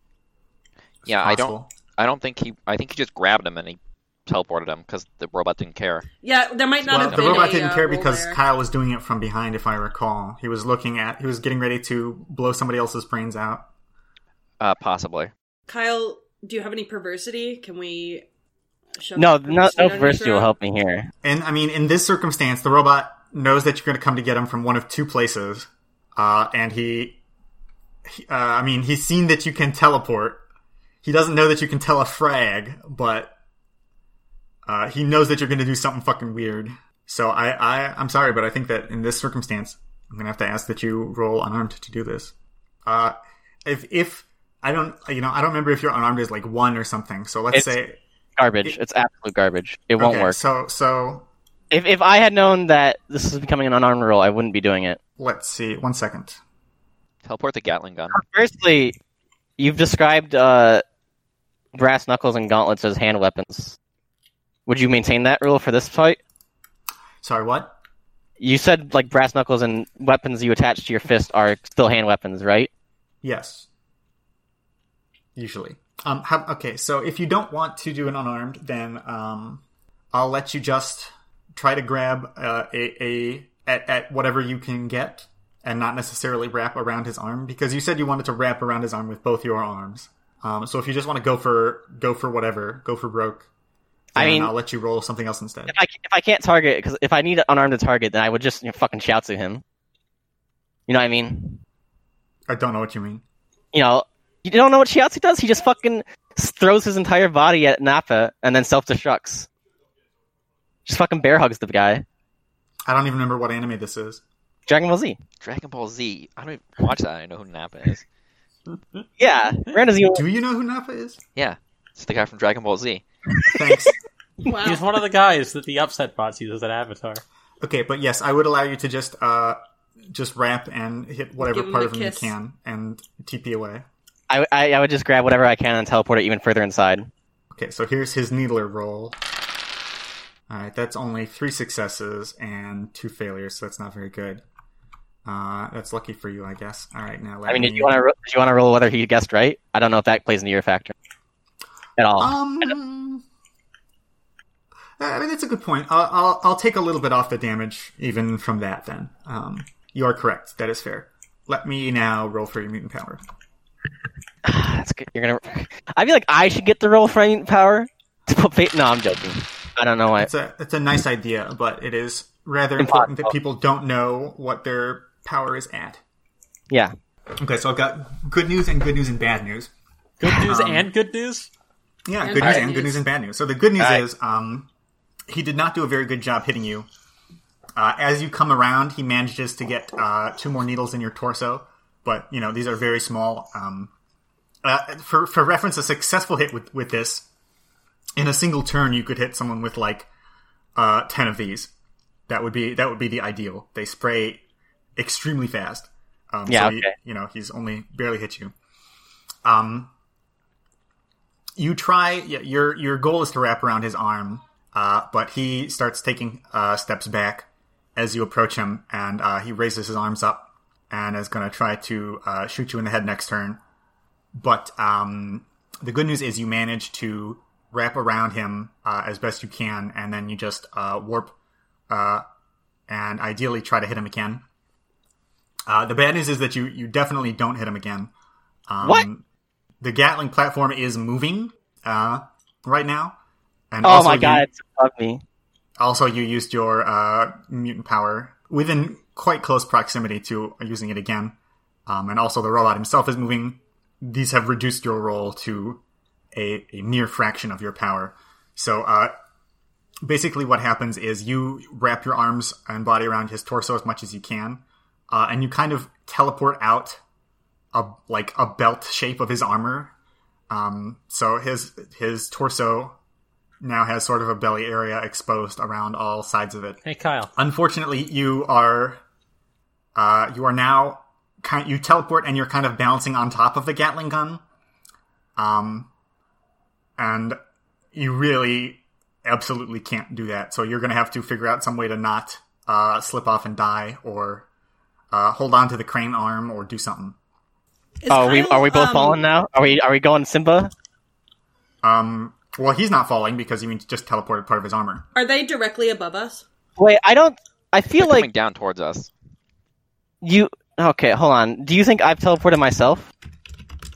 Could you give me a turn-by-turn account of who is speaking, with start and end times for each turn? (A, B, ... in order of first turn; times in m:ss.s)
0:01.1-0:01.7 A
0:01.1-0:06.1 B
0:06.2-0:08.4 C
0:06.8-0:13.7 A
0:07.1-0:07.6 B
0:14.6-0:15.3 B
0:15.7-0:18.2 C
0:19.0-0:20.5 C
0:19.2-0:21.1 D
0:21.2-0:27.2 A
0:28.1-0:30.4 A
0:31.0-0:33.3 A
0:34.7-0:42.3 A
0:42.9-0:48.0 A
0:48.4-0:50.4 D
0:50.0-0:51.3 A
0:51.7-0:55.0 D
0:55.2-0:56.4 A
0:57.2-0:58.2 B
0:58.1-0:59.0 D
0:59.6-1:00.8 D
1:01.8-1:03.8 D
1:04.7-1:06.2 D
1:07.2-1:07.8 A
1:08.4-1:12.7 D
1:13.2-1:13.7 A
1:15.4-1:19.6 A
1:20.1-1:33.5 A
1:34.2-1:34.5 D
1:34.2-1:35.8 A
1:35.7-1:39.6 D
1:40.9-1:41.6 D
1:42.5-1:43.2 A
1:43.7-1:49.5 D
1:50.9-1:52.0 D
1:52.9-1:54.2 A
1:54.7-1:55.2 D
1:55.4-1:58.0 B
1:59.2-2:00.2 D
2:00.1-2:01.2 A
2:01.4-2:03.0 B
2:03.5-2:04.0 A
2:04.4-2:04.8 C
2:04.6-2:07.2 E
2:07.6-2:09.6 A
2:10.1-2:13.8 A
2:11.4-2:12.3 C
2:14.3-2:17.1 D
2:17.5-2:19.2 A
2:20.5-2:24.4 A
2:25.2-2:28.0 A
2:27.5-2:30.9 D
2:32.0-2:32.7 D
2:32.2-2:33.2 A
2:35.0-2:43.2 A
2:44.4-2:50.3 D
2:50.2-2:56.0 A
2:52.8-2:53.4 D
2:57.4-2:59.7 A
3:00.2-3:01.5 E
3:00.3-3:00.9 A
3:02.1-3:04.7 A
3:02.2-3:03.0 C
3:02.4-3:02.7 D
3:03.8-3:04.0 D
3:05.3-3:06.9 A
3:07.8-3:13.9 A
3:14.6-3:17.3 A
3:18.2-3:20.1 A
3:20.8-3:21.7 A
3:22.3-3:24.4 A
3:25.0-3:28.5 A
3:26.5-3:26.9 D
3:29.4-3:29.9 A
3:31.6-3:43.6 A
3:44.3-3:51.4 A
3:51.9-3:52.2 A
3:52.9-3:54.4 A
3:55.7-3:58.1 A
3:58.7-3:59.2 A
3:59.8-4:03.2 A
4:03.7-4:04.5 A
4:03.8-4:05.2 D
4:05.8-4:11.4 A
4:11.9-4:15.8 A
4:16.3-4:19.1 A
4:20.0-4:27.0 A
4:27.7-4:29.9 A
4:30.5-4:33.0 A
4:33.6-4:36.8 A
4:36.8-4:37.3 E
4:37.4-4:39.0 A
4:40.0-4:44.4 A
4:45.4-4:45.9 A
4:47.0-4:47.4 A
4:47.9-4:54.5 A
4:55.1-4:57.2 A
4:58.0-4:59.2 C
4:58.1-5:00.7 D
5:01.8-5:05.1 A
5:05.2-5:06.4 C
5:06.8-5:08.3 D
5:08.0-5:09.1 B
5:10.2-5:13.1 D